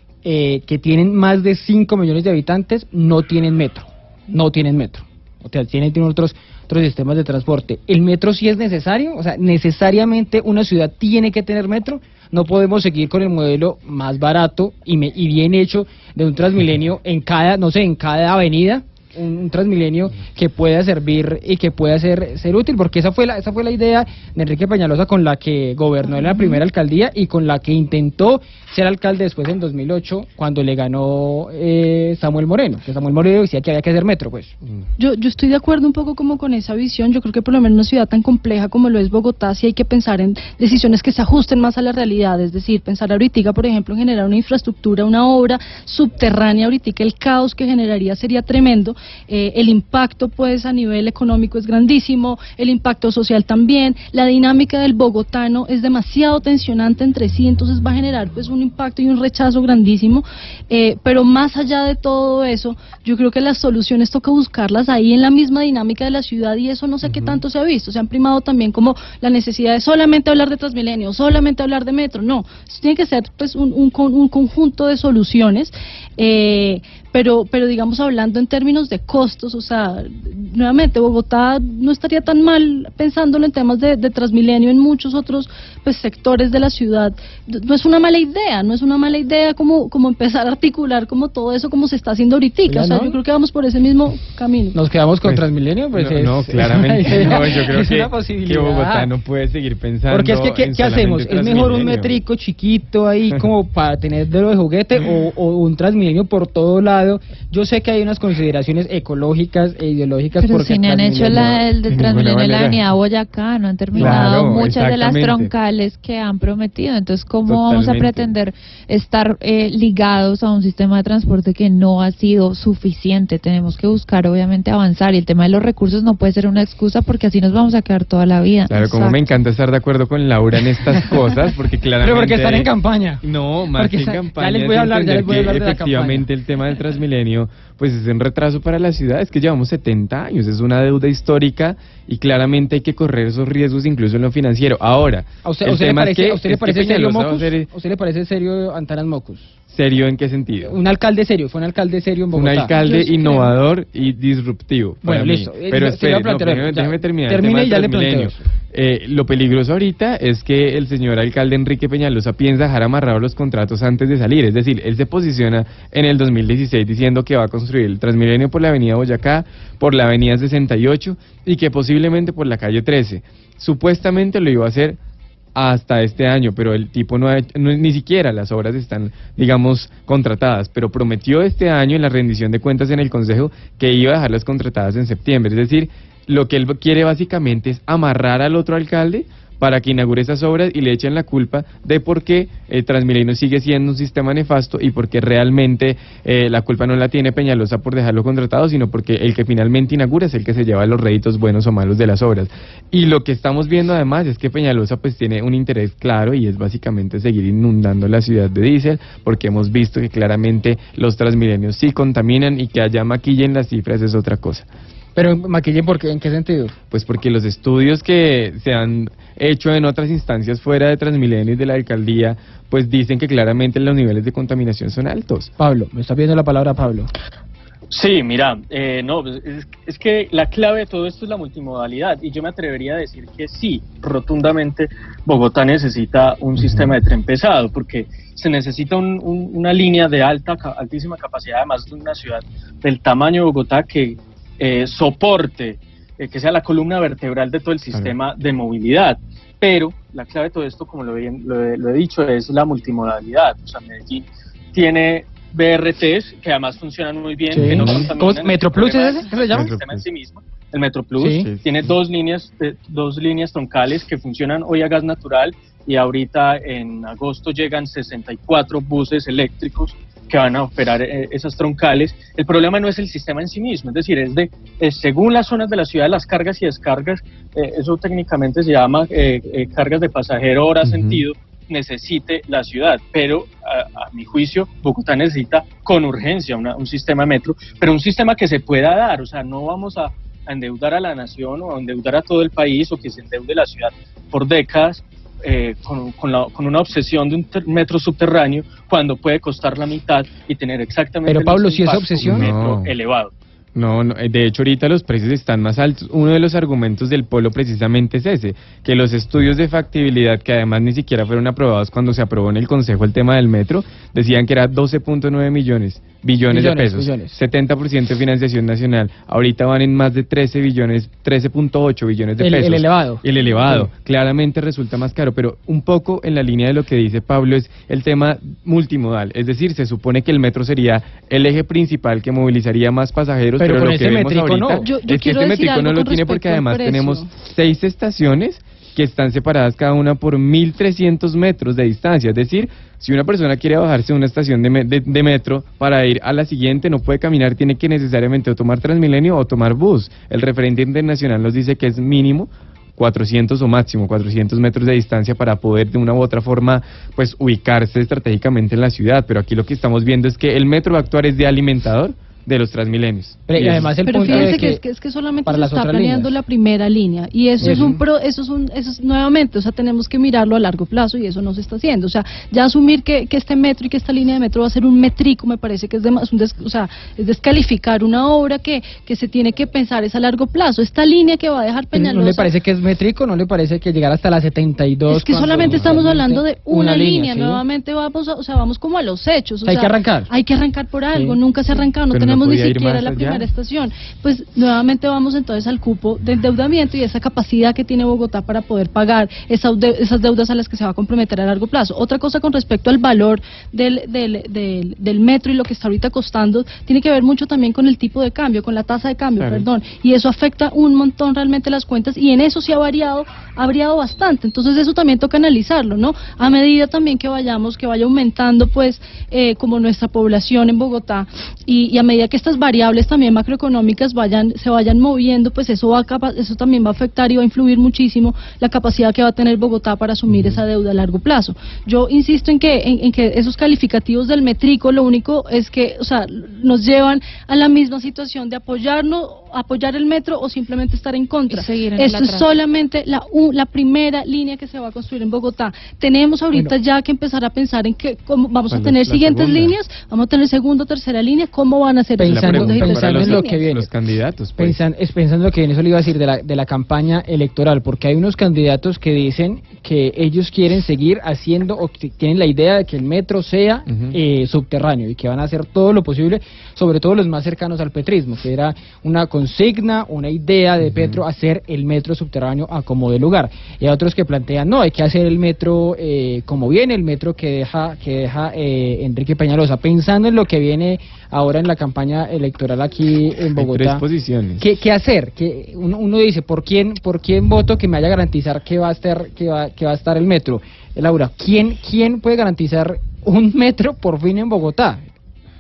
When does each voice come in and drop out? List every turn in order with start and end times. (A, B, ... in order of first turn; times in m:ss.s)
0:00.2-0:34.5 A
0:26.2-0:26.6 B
0:35.0-1:34.8 B
1:07.0-1:07.4 C
1:32.7-1:33.2 A
1:34.7-1:39.1 A
1:35.9-1:42.2 C
1:40.1-1:51.7 A
1:50.4-2:09.2 D
1:51.9-1:52.8 C
1:53.9-1:55.5 C
1:54.0-1:54.3 A
1:57.5-1:58.3 C
2:08.7-2:12.7 C
2:10.9-2:11.3 A
2:12.0-2:13.2 A
2:13.2-2:27.7 C
2:13.7-2:16.3 A
2:25.4-2:29.6 A
2:29.7-2:30.8 C
2:30.6-2:32.7 A
2:32.3-2:55.0 C
2:32.8-2:33.5 B
2:32.8-2:33.5 D
2:35.0-2:38.4 A
2:55.6-3:34.7 C
3:35.2-3:36.7 A
3:36.9-3:45.5 C
3:45.6-3:47.1 A
3:47.9-5:03.3 E
3:56.6-3:56.9 C
4:17.5-4:19.7 A
4:17.5-4:18.1 C
4:19.5-4:20.0 C
4:21.2-4:21.5 A
4:21.3-4:21.6 C
4:40.8-4:41.2 C
5:01.2-5:02.5 A
5:02.2-5:02.9 C
5:03.8-6:04.7 C
5:16.5-5:17.4 A
5:22.4-5:23.9 A
5:33.6-5:34.9 A
5:34.8-5:37.3 B
6:03.5-6:04.8 A
6:04.0-6:22.5 B
6:05.4-6:06.3 A
6:07.6-6:08.0 C
6:07.6-6:08.0 A
6:21.9-6:27.6 A
6:25.1-7:33.6 B
6:25.6-6:26.1 C
6:29.6-6:30.3 A
6:31.1-6:31.4 A
6:32.1-6:33.5 C
6:49.4-6:49.7 C
7:10.3-7:10.6 C
7:21.5-7:22.5 D
7:28.7-7:29.8 C
7:32.2-7:33.9 A
7:32.2-7:34.8 C
7:34.6-8:04.0 A
7:43.9-7:44.2 C
7:50.8-7:51.2 C
8:03.6-8:04.6 C
8:04.6-8:15.0 A